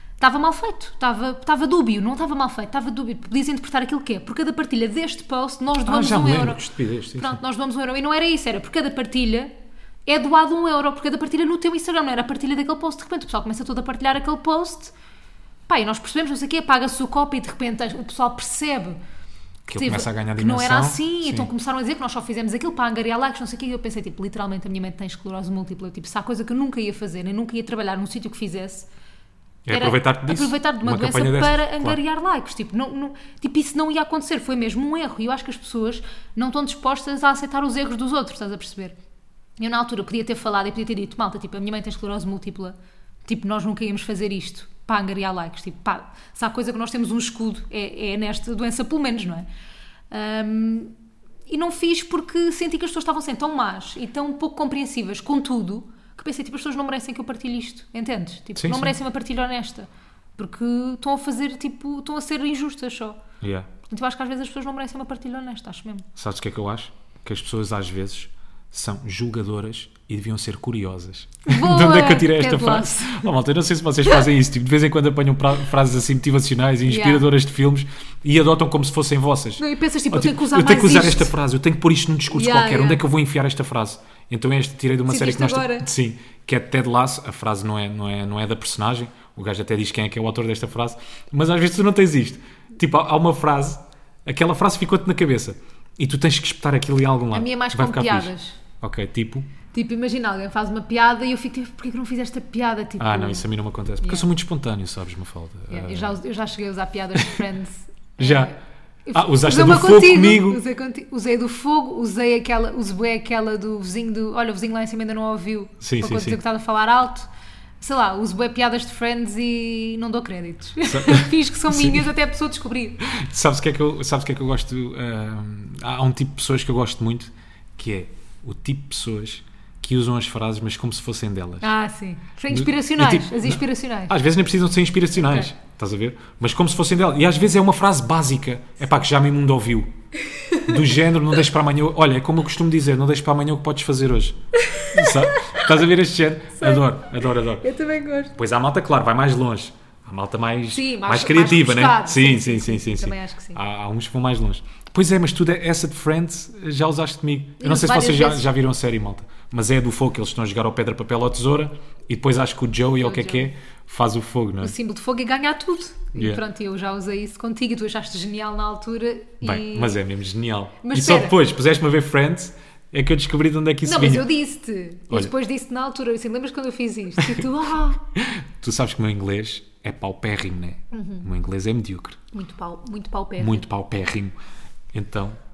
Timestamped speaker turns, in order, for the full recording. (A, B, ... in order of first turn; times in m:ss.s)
0:00.2-0:09.5 A
0:05.8-0:07.4 B
0:10.1-0:14.9 A
0:15.7-0:19.0 A
0:19.7-0:21.5 B
0:19.7-0:28.9 A
0:29.6-0:32.0 B
0:29.7-0:39.0 A
0:39.6-0:42.7 A
0:43.3-0:49.4 A
0:50.1-0:50.9 A
0:51.5-1:03.2 A
0:58.6-0:58.9 B
1:03.4-1:03.7 B
1:03.9-1:06.0 A
1:06.2-1:39.5 B
1:11.5-1:13.3 A
1:16.8-1:17.2 A
1:19.6-1:21.3 A
1:22.3-1:23.0 A
1:25.1-1:25.9 A
1:37.3-1:38.6 A
1:39.7-1:43.4 A
1:43.0-1:46.2 B
1:44.0-1:44.3 A
1:45.7-1:57.3 A
1:48.2-1:48.5 B
1:49.1-1:50.6 B
1:55.8-1:56.4 B
1:57.8-2:03.0 A
2:00.8-2:02.1 B
2:03.0-2:11.7 B
2:11.6-2:14.1 A
2:12.5-2:19.9 B
2:15.2-2:15.5 A
2:20.2-2:20.9 A
2:20.6-2:24.4 B
2:24.6-2:25.8 A
2:24.9-2:27.6 B
2:26.6-2:26.9 A
2:27.4-2:28.4 A
2:28.3-2:44.7 B
2:30.7-2:33.6 A
2:37.6-2:38.4 A
2:43.0-2:43.5 A
2:44.6-2:50.0 A
2:46.1-2:46.4 B
2:49.4-2:54.3 B
2:50.8-2:51.4 A
2:53.8-2:58.0 A
2:57.2-2:57.5 B
2:58.1-3:02.2 B
3:00.9-3:01.3 A
3:02.3-3:03.7 A
3:03.4-3:04.3 B
3:04.9-3:05.4 B